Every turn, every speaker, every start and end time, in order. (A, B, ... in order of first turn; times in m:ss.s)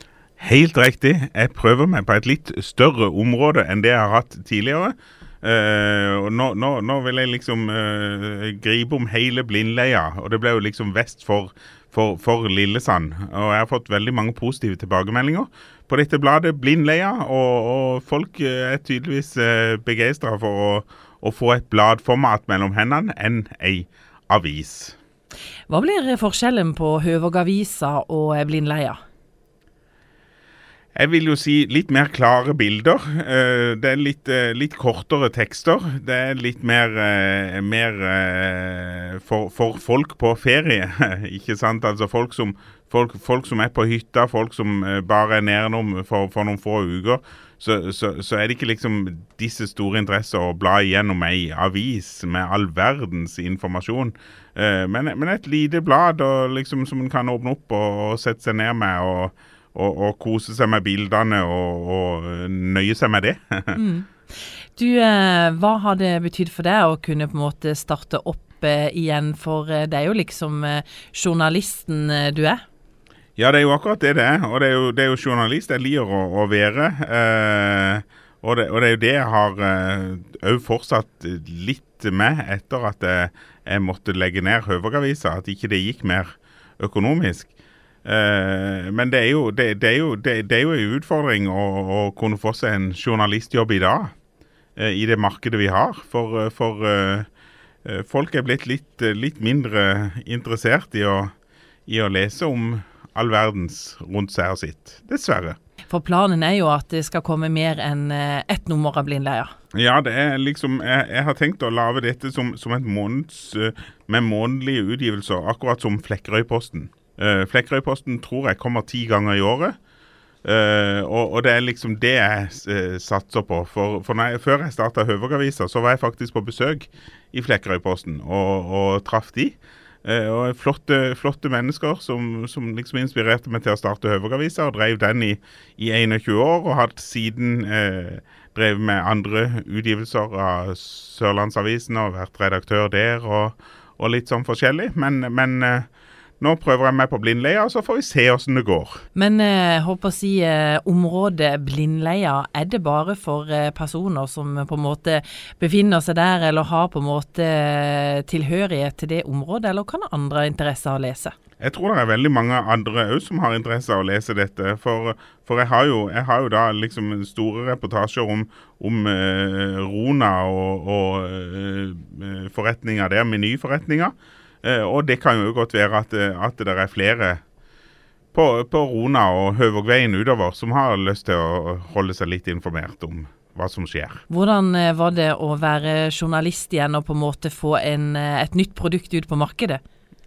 0:00.4-0:25.0 A
0:25.7-0:29.0 B
0:30.9-1:03.8 A
1:03.8-1:04.1 B
1:04.8-1:12.6 B
1:13.4-1:27.5 A
1:28.0-1:34.1 A
1:34.8-1:37.3 A
1:37.8-1:41.3 A
1:41.9-1:45.6 A
1:45.9-1:49.5 B
1:49.7-1:59.8 A
2:00.4-2:25.9 A
2:26.4-2:29.0 A
2:29.1-2:41.3 B
2:41.6-2:57.4 A
2:58.3-3:04.2 A
3:04.3-3:09.8 B